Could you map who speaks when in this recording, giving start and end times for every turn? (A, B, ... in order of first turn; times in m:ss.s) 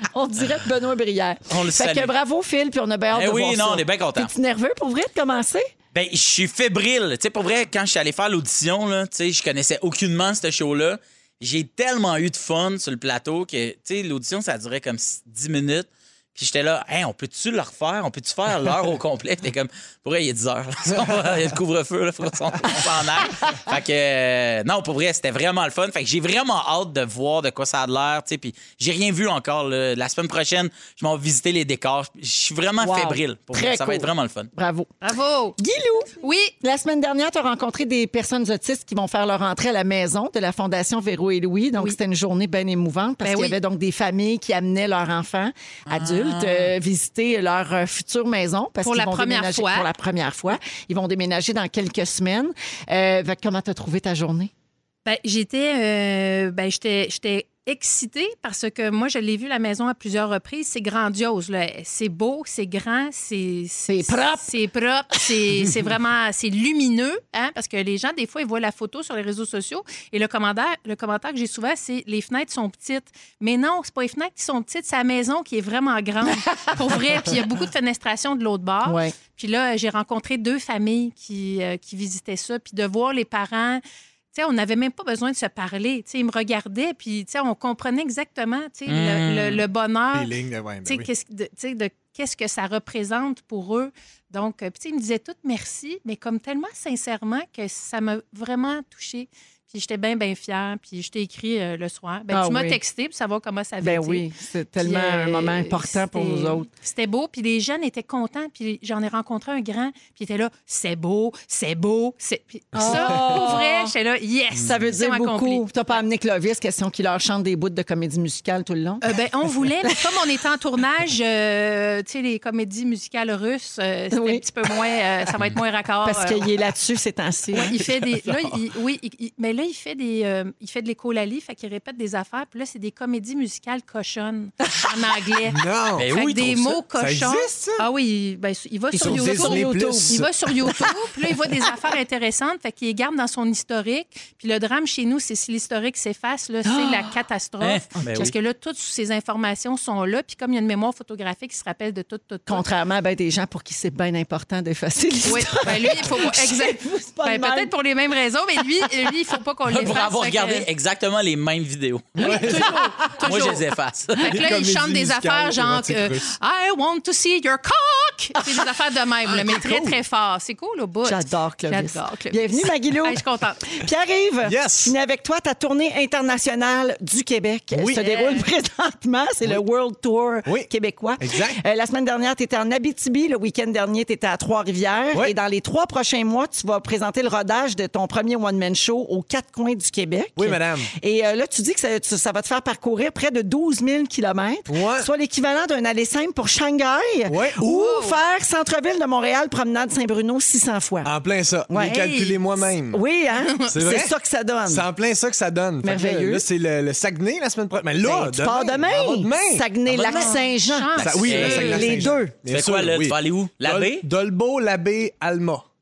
0:00.1-0:05.7 A
0:01.5-0:02.1 B
0:03.1-0:04.3 B
0:05.9-0:34.5 B
0:32.8-0:34.9 A
0:35.0-0:35.6 C
0:35.6-0:54.5 A
0:36.2-0:36.5 C
0:43.2-0:43.6 C
0:45.9-0:46.7 B
0:48.8-0:49.9 C
0:55.0-1:23.8 C
1:03.9-1:04.5 A
1:18.8-1:19.1 A
1:24.3-1:30.3 C
1:28.9-1:29.6 B
1:30.1-1:31.1 D
1:30.8-1:44.2 C
1:42.3-1:42.8 A
1:43.8-1:46.7 A
1:44.8-1:56.0 C
1:52.7-1:53.5 D
1:52.7-1:53.9 A
1:54.6-1:59.0 A
1:59.0-2:06.5 C
2:04.1-2:04.4 A
2:06.0-2:07.8 A
2:07.5-2:32.6 C
2:15.5-2:16.0 D
2:16.0-2:16.8 B
2:16.9-2:17.8 D
2:18.9-2:20.2 A
2:19.0-2:20.9 D
2:26.6-2:27.1 A
2:27.6-2:28.3 B
2:32.5-2:37.7 A
2:35.2-2:40.6 C
2:39.7-2:42.2 B
2:42.2-2:42.7 D
2:42.2-2:43.6 C
2:42.2-2:43.4 A
2:43.2-2:44.4 B
2:44.2-2:53.6 C
2:44.2-2:46.3 D
2:49.4-2:49.9 D
2:51.0-3:21.1 A
2:54.4-2:54.9 D
2:57.7-2:58.0 D
2:58.0-2:58.4 C
3:01.2-3:01.6 D
3:10.4-3:10.9 D
3:14.7-3:15.1 D
3:17.3-3:17.8 D
3:17.6-3:18.2 C
3:21.0-3:23.0 D
3:21.7-3:22.1 A
3:21.8-3:22.4 C
3:22.9-3:24.9 A
3:23.7-3:24.1 D
3:24.7-3:29.6 D
3:25.8-3:26.4 A
3:28.0-3:32.3 A
3:29.9-3:32.0 B
3:30.1-3:31.9 C
3:31.0-3:35.6 D
3:32.5-3:34.0 B